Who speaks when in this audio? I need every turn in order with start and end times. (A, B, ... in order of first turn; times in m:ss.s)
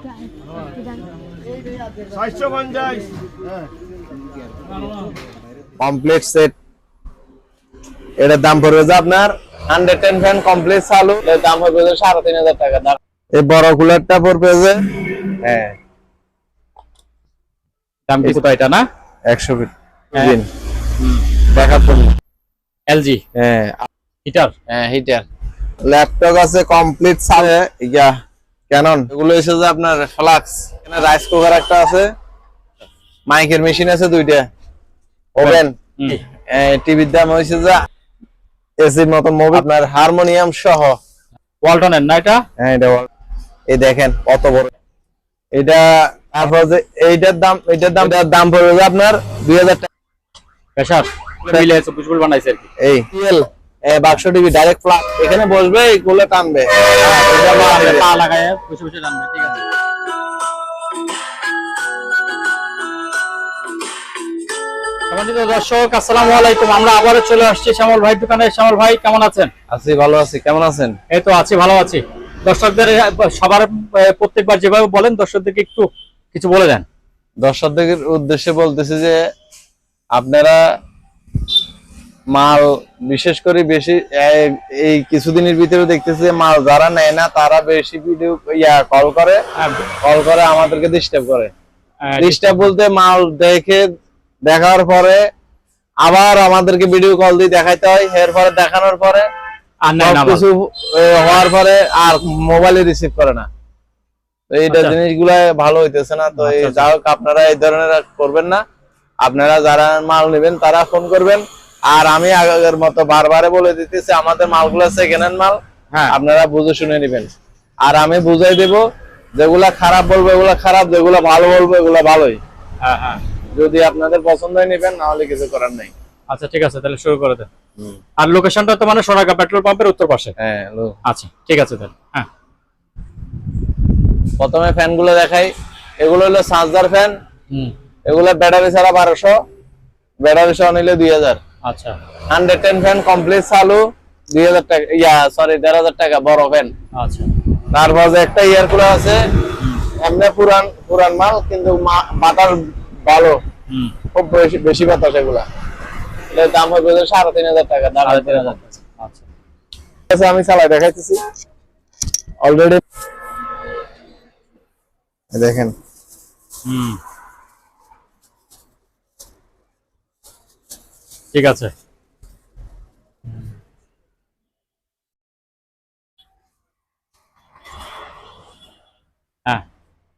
0:05.8-0:06.5 A
0:08.2-0:15.8 A
0:18.1-0:18.8 B
0:19.3-0:20.5 A
0:21.0-0:21.3 B
0:21.4-0:22.1 A
0:22.9-0:23.2 B
0:23.3-0:23.8 A
0:24.2-0:24.5 B
0:24.7-0:25.2 A
0:25.8-0:28.1 A
0:28.7-0:32.1 A
0:33.3-0:34.5 A
0:35.4-0:36.2 B
0:35.4-0:35.7 A
0:36.5-0:37.8 A
0:38.8-0:41.0 A
0:41.6-0:42.4 B
0:42.6-0:43.1 A
0:43.7-0:44.7 A
0:45.5-0:49.9 A
0:50.8-0:52.7 B
0:51.4-0:51.7 A
0:52.8-0:58.1 A
0:57.0-0:59.6 B
1:05.1-1:09.5 B
1:09.7-1:11.0 A
1:11.1-1:16.8 B
1:17.4-1:19.2 A
1:20.1-1:20.6 A
1:22.3-1:29.4 A
1:29.6-1:29.9 B
1:30.0-1:31.5 A
1:32.0-1:32.7 B
1:32.2-1:33.9 A
1:34.4-1:35.2 A
1:36.0-1:39.3 A
1:39.8-1:40.4 B
1:40.0-1:43.5 A
1:44.5-1:48.6 A
1:44.7-1:45.0 B
1:46.4-1:46.9 B
1:49.2-1:57.3 A
1:55.9-1:56.2 B
1:57.8-1:58.8 A
1:59.4-2:02.4 A
2:02.8-2:03.2 B
2:03.5-2:05.9 A
2:06.3-2:07.5 B
2:08.2-2:10.3 B
2:10.4-2:11.0 A
2:11.0-2:12.3 B
2:14.4-2:17.2 A
2:18.1-2:19.4 A
2:20.2-2:21.4 A
2:21.6-2:22.0 B
2:22.3-2:26.7 A
2:26.9-2:27.3 B
2:27.7-2:29.2 A
2:29.6-2:29.9 B
2:29.9-2:33.4 A
2:33.7-2:33.9 B
2:34.1-2:35.5 A
2:36.3-2:38.6 A
2:38.0-2:39.3 B
2:40.1-2:41.2 A
2:42.4-2:42.8 A
2:45.3-2:45.8 A
2:46.6-2:47.0 B
2:51.3-2:51.7 B